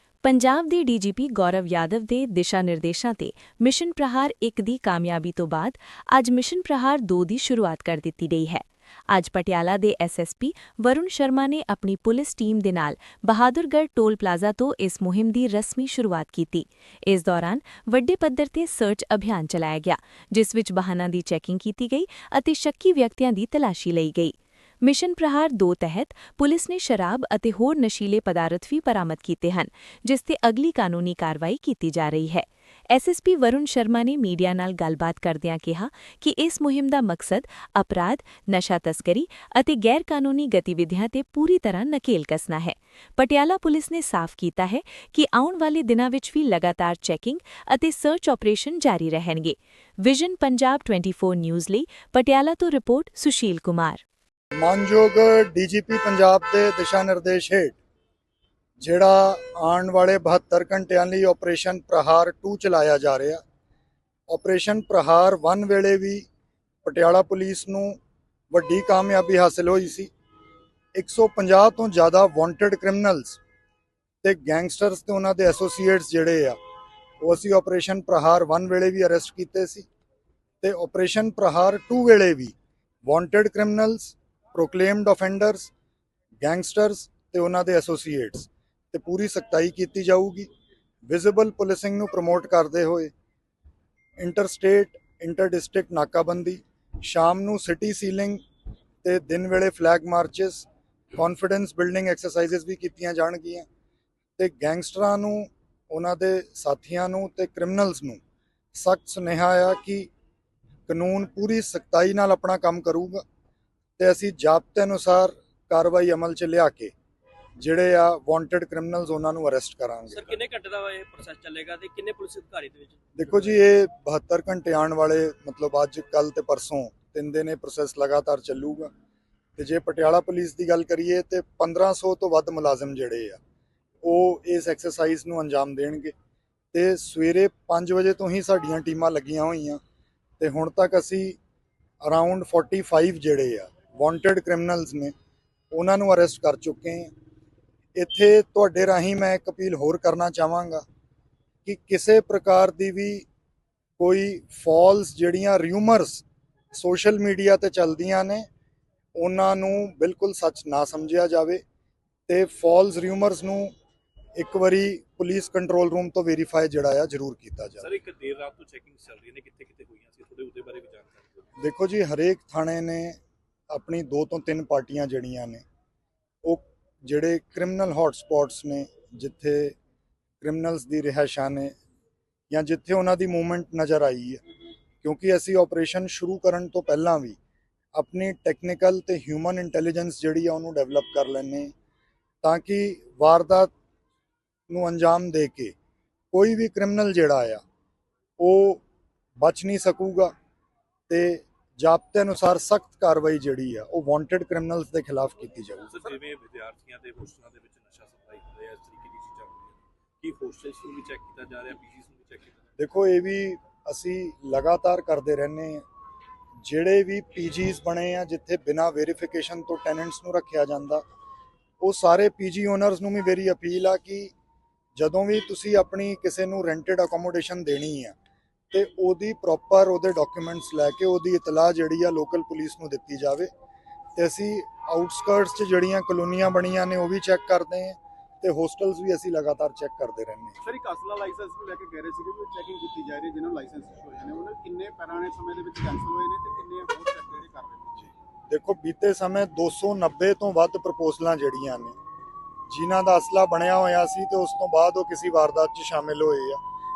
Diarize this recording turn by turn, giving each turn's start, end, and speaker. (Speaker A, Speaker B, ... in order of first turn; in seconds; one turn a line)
Speaker A: 0.2-54.0
Speaker B: 54.6-57.8
Speaker B: 58.8-63.4
Speaker B: 64.3-66.2
Speaker B: 66.8-68.0
Speaker B: 68.5-70.1
Speaker B: 71.0-73.4
Speaker B: 74.2-76.6
Speaker B: 77.2-79.9
Speaker B: 80.6-82.5
Speaker B: 83.0-85.7
Speaker B: 86.4-90.5
Speaker B: 91.1-93.1
Speaker B: 94.2-98.4
Speaker B: 99.0-103.7
Speaker B: 104.4-108.2
Speaker B: 108.7-110.1
Speaker B: 110.9-113.2
Speaker B: 114.0-116.9
Speaker B: 117.6-120.4
Speaker C: 120.1-123.0
Speaker D: 120.4-121.7
Speaker B: 123.2-128.9
Speaker B: 129.6-133.4
Speaker B: 134.0-136.1
Speaker B: 136.7-139.8
Speaker B: 140.4-141.4
Speaker B: 142.0-145.1
Speaker B: 145.7-147.1
Speaker B: 148.0-150.8
Speaker B: 151.7-153.2
Speaker B: 154.0-158.5
Speaker B: 159.2-161.6
Speaker B: 162.3-163.7
Speaker B: 164.4-167.9
Speaker D: 167.8-171.5
Speaker B: 171.6-173.2
Speaker B: 173.7-175.6
Speaker B: 176.4-179.8
Speaker B: 180.4-181.7
Speaker B: 182.5-184.4
Speaker B: 185.0-187.4
Speaker B: 187.9-191.7
Speaker B: 192.4-193.7
Speaker B: 194.7-195.7
Speaker B: 196.3-197.6
Speaker B: 198.4-198.8
Speaker B: 199.4-200.3
Speaker B: 201.1-205.9
Speaker D: 205.9-212.7
Speaker B: 212.8-215.8
Speaker B: 216.6-221.0
Speaker B: 221.8-224.3
Speaker B: 225.0-228.2
Speaker B: 228.7-233.5
Speaker B: 234.2-240.6
Speaker E: 240.6-248.1
Speaker B: 248.5-252.0
Speaker B: 252.7-256.6